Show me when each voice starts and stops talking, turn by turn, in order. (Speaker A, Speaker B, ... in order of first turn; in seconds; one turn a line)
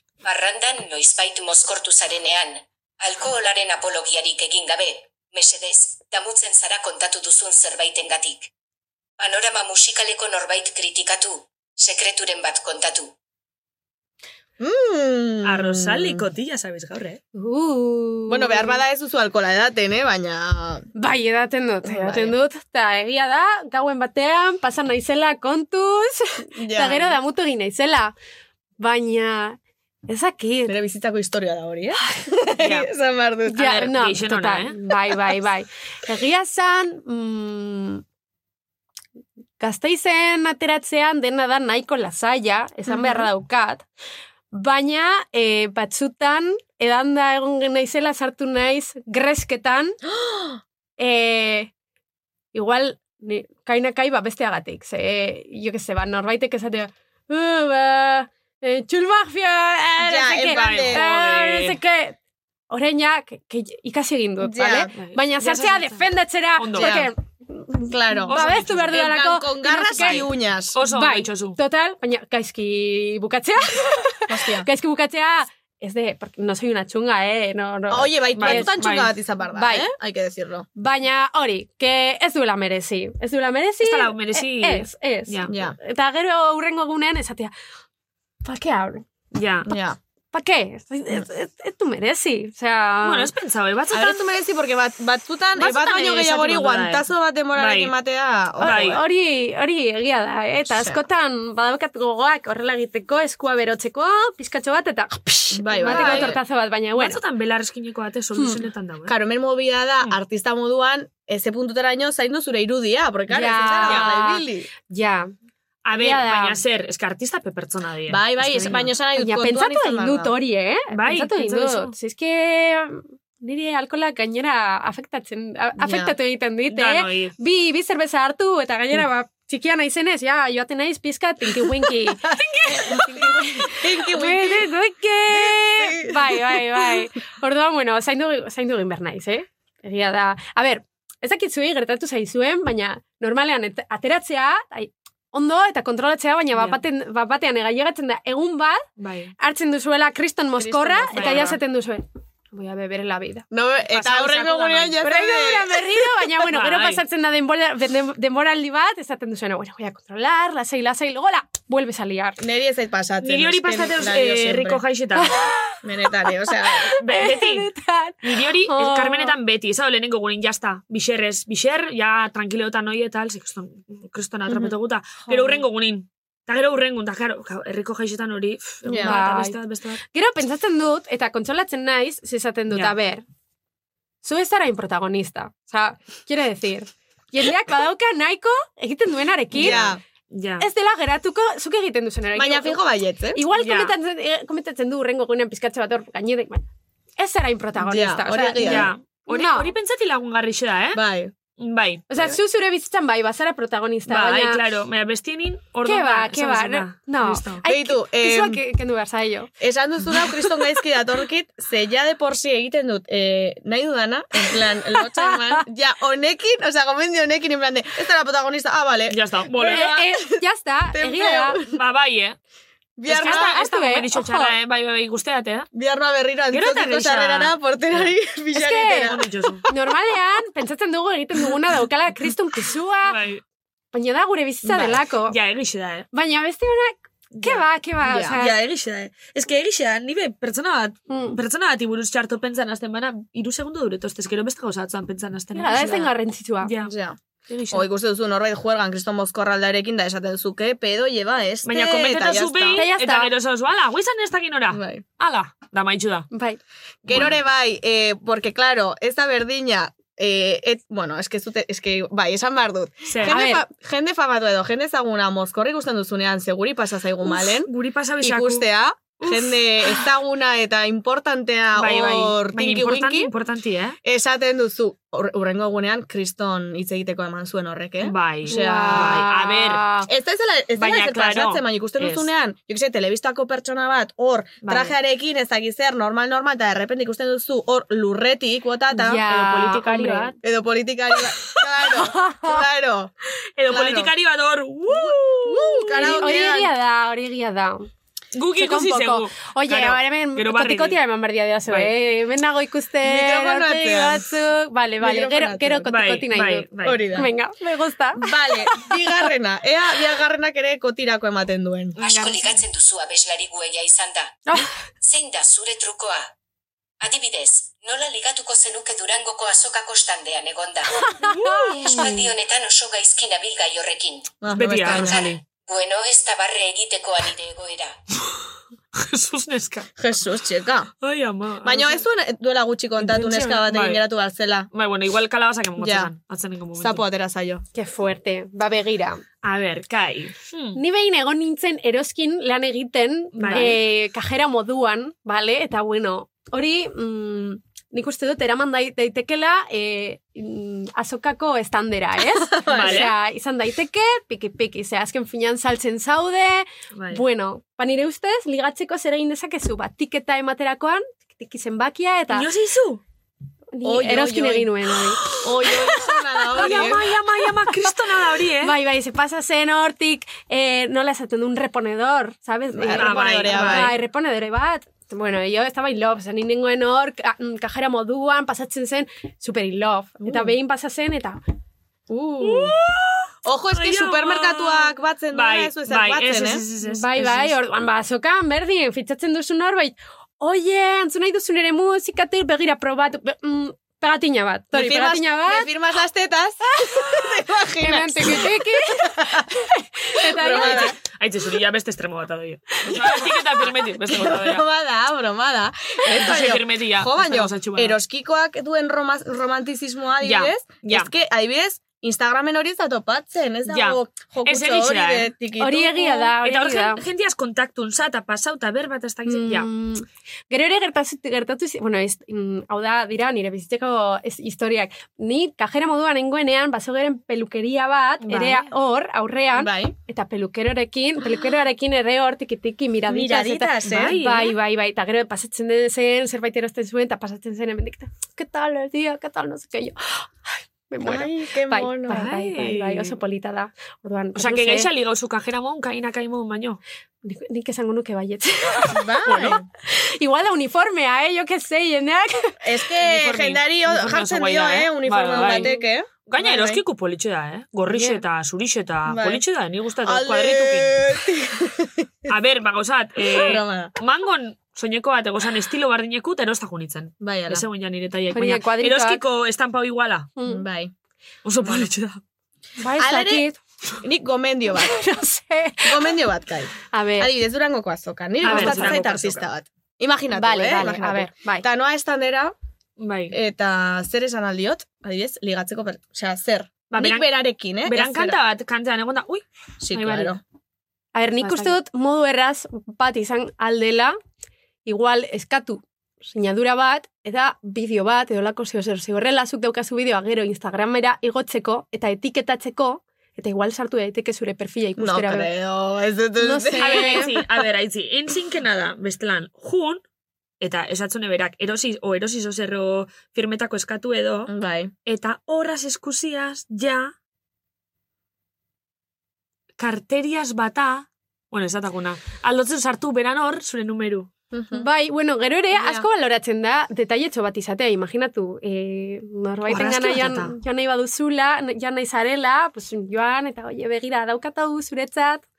Speaker A: 0.2-8.5
Speaker A: 9.2-13.1
Speaker B: 14.6-16.2
Speaker C: 15.4-17.2
Speaker D: 17.3-18.8
Speaker B: 18.3-20.9
Speaker D: 20.9-28.1
Speaker B: 21.8-22.3
Speaker B: 26.6-27.2
Speaker D: 28.8-30.8
Speaker B: 30.6-33.9
Speaker D: 32.0-32.3
Speaker C: 32.6-32.9
Speaker D: 33.5-38.0
Speaker C: 33.6-34.7
Speaker D: 39.6-43.8
Speaker B: 42.9-43.3
Speaker D: 44.5-50.0
Speaker B: 50.1-50.6
Speaker D: 51.0-51.7
Speaker D: 52.5-62.1
Speaker B: 60.0-61.0
Speaker C: 60.5-61.8
Speaker D: 62.7-70.3
Speaker B: 64.4-64.9
Speaker C: 64.9-67.0
Speaker B: 66.7-67.1
Speaker B: 67.7-70.8
Speaker C: 68.3-69.0
Speaker C: 69.9-71.6
Speaker D: 70.8-79.9
Speaker B: 74.3-74.7
Speaker B: 77.9-80.7
Speaker C: 78.3-79.1
Speaker D: 80.8-87.5
Speaker C: 83.8-85.5
Speaker B: 85.5-85.8
Speaker D: 88.4-89.0
Speaker C: 89.3-89.7
Speaker B: 89.7-90.0
Speaker D: 90.3-93.3
Speaker C: 93.0-94.2
Speaker B: 93.9-99.0
Speaker C: 95.5-97.9
Speaker C: 98.6-99.0
Speaker D: 98.6-107.2
Speaker B: 100.7-101.0
Speaker B: 105.5-106.4
Speaker C: 105.8-106.4
Speaker C: 106.9-109.1
Speaker D: 108.4-108.6
Speaker B: 109.0-114.7
Speaker D: 113.3-115.3
Speaker C: 115.8-118.9
Speaker D: 115.9-116.6
Speaker B: 118.1-120.3
Speaker D: 119.2-148.8
Speaker C: 120.9-121.9
Speaker B: 125.8-126.1
Speaker C: 126.7-127.3
Speaker B: 131.8-134.7
Speaker C: 132.4-132.6
Speaker B: 135.3-137.1
Speaker C: 146.5-146.8
Speaker C: 149.0-149.3
Speaker D: 149.4-153.4
Speaker B: 150.6-151.5
Speaker C: 151.1-151.6
Speaker B: 153.5-156.3
Speaker C: 153.9-154.9
Speaker D: 155.0-162.4
Speaker C: 156.5-157.0
Speaker B: 162.4-164.8
Speaker C: 163.2-165.3
Speaker D: 165.2-169.3
Speaker B: 165.8-166.9
Speaker C: 167.0-167.7
Speaker C: 168.2-180.0
Speaker B: 174.5-174.7
Speaker B: 178.8-179.1
Speaker D: 179.0-183.2
Speaker D: 184.2-189.8
Speaker B: 189.6-190.0
Speaker C: 189.6-190.7
Speaker D: 190.6-192.8
Speaker B: 192.3-193.4
Speaker D: 193.3-196.7
Speaker C: 193.6-193.9
Speaker D: 197.2-199.7
Speaker B: 197.8-198.9
Speaker C: 198.6-201.0
Speaker B: 200.9-201.3
Speaker C: 201.6-202.0
Speaker D: 202.1-204.6
Speaker C: 204.1-207.6
Speaker D: 205.8-209.5
Speaker B: 207.7-208.6
Speaker B: 209.6-220.3
Speaker D: 214.5-215.6
Speaker C: 219.1-220.0
Speaker D: 219.6-221.6
Speaker B: 220.9-221.7
Speaker C: 221.7-222.4
Speaker B: 223.0-223.6
Speaker C: 223.1-225.7
Speaker D: 223.1-224.5
Speaker B: 225.7-229.2
Speaker C: 226.5-228.1
Speaker D: 228.5-229.1
Speaker C: 229.0-229.6
Speaker D: 229.7-233.2
Speaker C: 233.0-233.4
Speaker D: 233.9-235.4
Speaker B: 234.6-235.0
Speaker C: 235.3-236.1
Speaker D: 236.1-238.6
Speaker C: 237.3-237.6
Speaker B: 238.0-238.4
Speaker C: 238.4-246.1
Speaker D: 241.1-241.4
Speaker D: 245.5-246.7
Speaker C: 246.6-246.9
Speaker B: 246.8-247.2
Speaker C: 247.5-247.8
Speaker B: 247.7-252.8
Speaker C: 251.6-256.3
Speaker D: 252.7-253.3
Speaker B: 254.7-255.0
Speaker D: 256.3-256.6
Speaker B: 257.0-267.7
Speaker C: 257.1-257.4
Speaker C: 263.1-263.4
Speaker D: 263.3-263.6
Speaker C: 267.2-268.7
Speaker B: 268.2-273.3
Speaker C: 269.2-270.0
Speaker C: 271.8-274.0
Speaker B: 274.0-279.2
Speaker C: 278.0-279.9
Speaker D: 278.5-280.1
Speaker B: 280.1-293.1
Speaker C: 280.8-282.3
Speaker C: 284.6-284.9
Speaker D: 288.9-290.3
Speaker C: 289.9-290.3
Speaker D: 291.9-292.6
Speaker C: 293.6-296.4
Speaker B: 293.7-294.1
Speaker B: 294.9-296.7
Speaker D: 295.9-297.9
Speaker C: 298.3-301.0
Speaker D: 298.5-308.9
Speaker C: 301.7-301.9
Speaker B: 303.0-304.3
Speaker B: 305.0-305.9
Speaker C: 305.9-307.2
Speaker B: 306.8-307.3
Speaker B: 308.2-311.9
Speaker C: 311.9-312.6
Speaker A: 312.0-314.4
Speaker A: 315.0-316.3
Speaker A: 317.0-321.1
Speaker D: 321.1-322.1
Speaker C: 321.2-322.2
Speaker A: 321.9-324.4
Speaker B: 324.4-325.3
Speaker C: 324.5-325.4
Speaker A: 324.9-327.9
Speaker C: 328.9-329.9
Speaker B: 330.0-330.9
Speaker C: 331.0-332.1
Speaker B: 331.6-334.7
Speaker C: 333.0-334.0
Speaker C: 334.7-337.0
Speaker B: 335.8-336.1
Speaker B: 336.8-337.6
Speaker D: 337.7-339.2
Speaker C: 339.4-340.8
Speaker D: 340.7-362.5
Speaker C: 343.3-343.8
Speaker B: 352.4-353.1
Speaker C: 352.7-353.1
Speaker C: 356.9-357.2
Speaker C: 362.3-363.0
Speaker D: 363.7-365.4
Speaker B: 363.8-364.7
Speaker C: 365.3-366.0
Speaker B: 365.3-367.0
Speaker C: 366.5-368.7
Speaker D: 366.6-367.0
Speaker D: 368.6-381.4
Speaker B: 372.7-373.9
Speaker C: 372.9-373.9
Speaker B: 382.1-382.7
Speaker C: 382.4-387.5
Speaker B: 383.4-386.6
Speaker D: 386.8-395.7
Speaker B: 394.7-399.5
Speaker D: 396.8-397.2
Speaker D: 397.8-400.9
Speaker B: 400.2-400.9
Speaker C: 400.6-404.6
Speaker B: 404.1-416.3
Speaker C: 406.1-408.0
Speaker C: 410.2-411.1
Speaker C: 413.7-415.3
Speaker D: 415.6-417.0
Speaker C: 416.4-419.7
Speaker D: 419.3-444.9
Speaker C: 428.2-428.7
Speaker B: 429.5-429.9
Speaker B: 433.1-434.1
Speaker C: 433.8-434.6
Speaker B: 441.0-442.3
Speaker C: 442.1-443.1
Speaker C: 444.3-446.8
Speaker D: 447.2-449.1
Speaker B: 448.9-449.6
Speaker C: 449.2-449.6
Speaker D: 449.8-452.7
Speaker B: 452.6-456.8
Speaker C: 453.0-455.7
Speaker D: 455.3-455.8
Speaker C: 456.2-461.0
Speaker D: 457.9-458.2
Speaker B: 459.1-459.4
Speaker B: 460.0-462.3
Speaker C: 462.3-470.3
Speaker B: 463.2-463.9
Speaker B: 467.2-467.6
Speaker D: 468.3-469.2
Speaker D: 470.4-470.6
Speaker B: 470.4-470.9
Speaker C: 471.4-472.2
Speaker B: 471.6-471.9
Speaker D: 472.8-473.6
Speaker B: 473.0-473.4
Speaker B: 474.0-475.0
Speaker D: 474.7-476.2
Speaker B: 475.8-482.5
Speaker D: 476.9-477.3
Speaker C: 478.4-479.4
Speaker D: 478.4-479.0
Speaker D: 480.3-481.6
Speaker C: 483.0-483.4
Speaker B: 483.3-488.4
Speaker C: 486.9-487.3
Speaker C: 487.8-490.3
Speaker B: 489.8-490.4
Speaker D: 491.1-494.2
Speaker C: 491.4-491.7
Speaker D: 494.8-505.5
Speaker B: 505.0-507.4
Speaker D: 506.4-507.4
Speaker C: 506.8-510.0
Speaker C: 510.6-514.5
Speaker B: 514.5-514.9
Speaker C: 515.0-517.1
Speaker C: 519.8-524.3
Speaker B: 524.5-524.9
Speaker D: 524.7-535.4
Speaker B: 525.7-526.0
Speaker C: 529.7-530.5